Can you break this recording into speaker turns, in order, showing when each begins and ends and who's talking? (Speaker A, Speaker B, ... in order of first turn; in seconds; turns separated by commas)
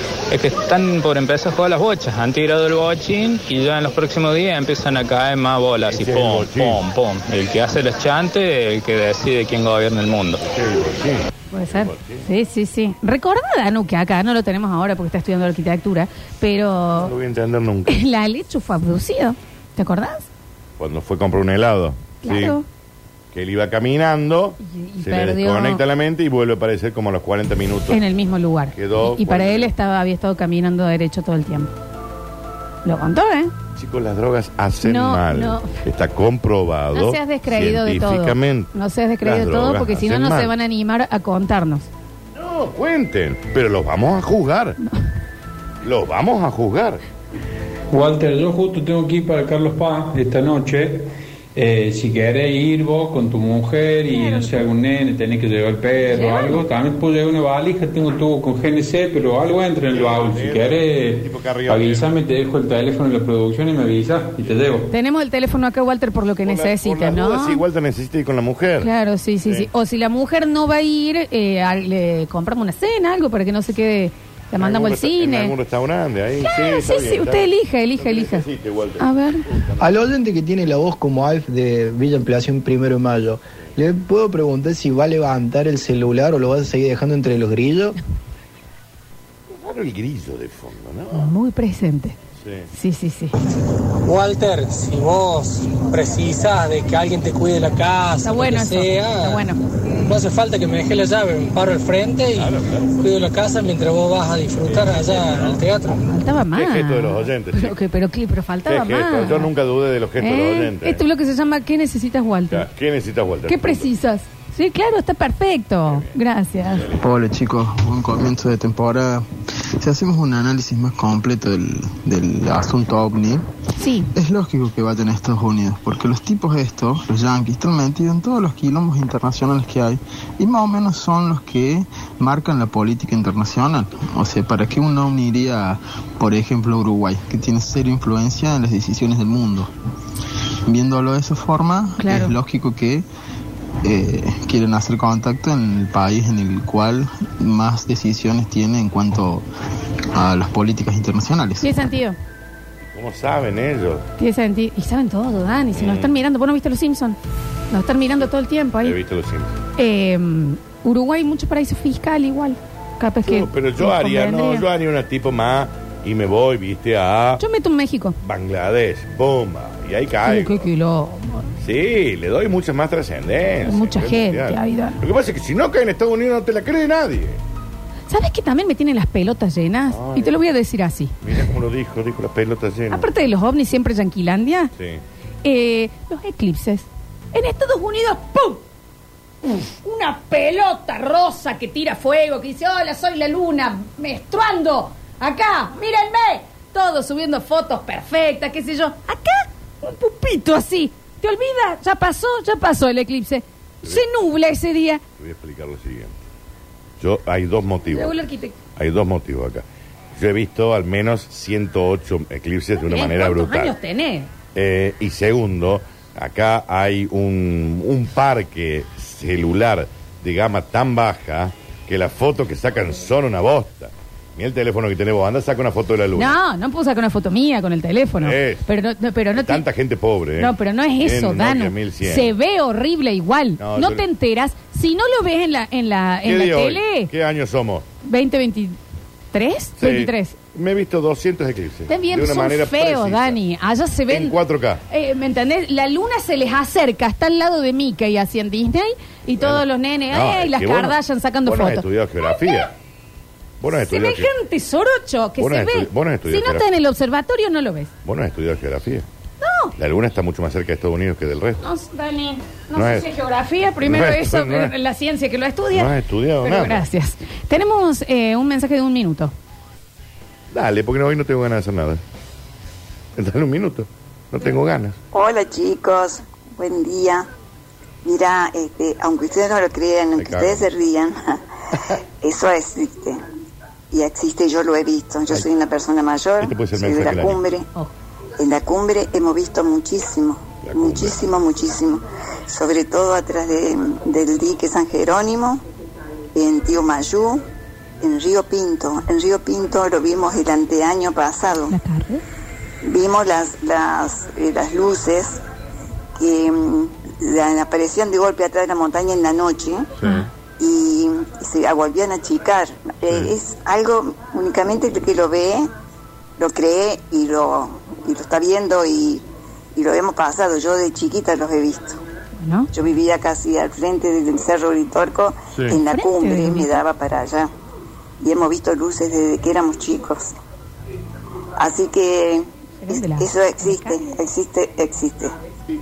Speaker A: 0.3-10.4, Speaker B: 5.8-6.8, Speaker B: 10.4-12.2, Speaker C: 11.5-17.1, Speaker B: 16.9-18.0, Speaker C: 17.9-20.3, Speaker B: 20.8-22.6, Speaker C: 22.2-22.6, Speaker B: 23.3-28.0, Speaker C: 24.6-25.8, Speaker C: 27.9-31.7, Speaker B: 28.7-29.7, Speaker C: 32.8-33.5, Speaker B: 33.8-40.5, Speaker C: 34.8-35.8, Speaker C: 36.9-41.9, Speaker B: 42.3-44.8, Speaker B: 45.8-47.0, Speaker D: 47.9-64.9, Speaker C: 54.0-54.6, Speaker C: 56.0-56.6, Speaker B: 59.9-62.1, Speaker C: 64.9-67.6, Speaker B: 66.4-68.9, Speaker C: 68.8-75.5, Speaker B: 74.5-79.9, Speaker C: 76.4-78.5, Speaker C: 79.0-79.5, Speaker E: 79.8-88.0, Speaker B: 89.5-91.3, Speaker C: 91.1-92.2, Speaker B: 92.4-92.7, Speaker C: 92.7-93.3, Speaker F: 94.0-99.4, Speaker C: 98.2-99.6, Speaker F: 100.0-106.0, Speaker B: 102.3-103.0, Speaker C: 106.0-109.5, Speaker B: 106.5-107.8, Speaker B: 108.6-111.0, Speaker C: 110.2-112.7, Speaker B: 112.5-113.9, Speaker C: 113.5-116.9, Speaker B: 115.8-117.0, Speaker G: 117.0-119.2, Speaker G: 119.8-123.5, Speaker C: 123.8-124.1, Speaker G: 124.1-139.7, Speaker G: 140.7-143.0, Speaker C: 142.0-142.3, Speaker G: 143.8-149.4, Speaker G: 150.1-151.8, Speaker C: 151.6-152.2, Speaker B: 152.9-154.1, Speaker C: 154.2-157.2, Speaker B: 155.7-156.1, Speaker C: 157.7-159.0, Speaker B: 158.8-159.6, Speaker C: 159.8-164.7, Speaker B: 163.2-167.4, Speaker C: 167.4-168.2, Speaker B: 168.2-170.7, Speaker C: 170.2-171.5, Speaker B: 171.6-177.4, Speaker C: 173.6-175.0, Speaker C: 178.1-181.1, Speaker B: 179.9-180.3, Speaker B: 181.2-183.1, Speaker C: 182.9-184.7, Speaker B: 184.8-185.0, Speaker C: 185.4-188.6, Speaker C: 189.4-205.0, Speaker B: 205.2-206.2, Speaker B: 207.0-208.2, Speaker C: 207.9-208.5, Speaker B: 208.8-213.7, Speaker C: 212.8-214.3, Speaker B: 214.5-226.4, Speaker C: 226.2-229.6, Speaker B: 228.2-228.7, Speaker B: 229.3-232.3, Speaker C: 230.4-237.1, Speaker B: 233.6-234.0, Speaker B: 236.2-237.8, Speaker C: 238.0-238.8, Speaker C: 239.3-240.4, Speaker B: 239.8-243.4, Speaker C: 241.9-244.3, Speaker B: 244.1-244.8, Speaker C: 244.9-252.7, Speaker B: 249.4-252.7, Speaker B: 253.6-254.3, Speaker C: 253.7-257.9, Speaker B: 255.4-256.6, Speaker B: 258.0-259.1, Speaker C: 259.4-259.7, Speaker B: 259.8-261.6, Speaker C: 261.6-265.9, Speaker B: 262.7-263.1, Speaker B: 263.8-264.7, Speaker B: 265.7-266.8, Speaker C: 266.4-269.3, Speaker B: 270.5-272.0, Speaker B: 273.1-275.0, Speaker H: 275.1-277.3, Speaker H: 278.0-281.4, Speaker B: 280.2-280.7, Speaker H: 282.2-283.2, Speaker H: 283.9-287.7, Speaker B: 286.4-287.4, Speaker H: 288.4-295.6, Speaker B: 290.6-291.2, Speaker H: 296.3-297.4, Speaker H: 298.0-301.7, Speaker C: 301.7-302.2, Speaker H: 302.8-305.4, Speaker H: 306.2-309.9, Speaker C: 310.0-310.3, Speaker H: 310.6-315.7, Speaker H: 316.4-322.0, Speaker C: 322.4-322.7, Speaker H: 322.7-327.5, Speaker C: 325.9-326.7, Speaker H: 328.2-330.3, Speaker H: 331.6-335.3, Speaker C: 332.8-334.0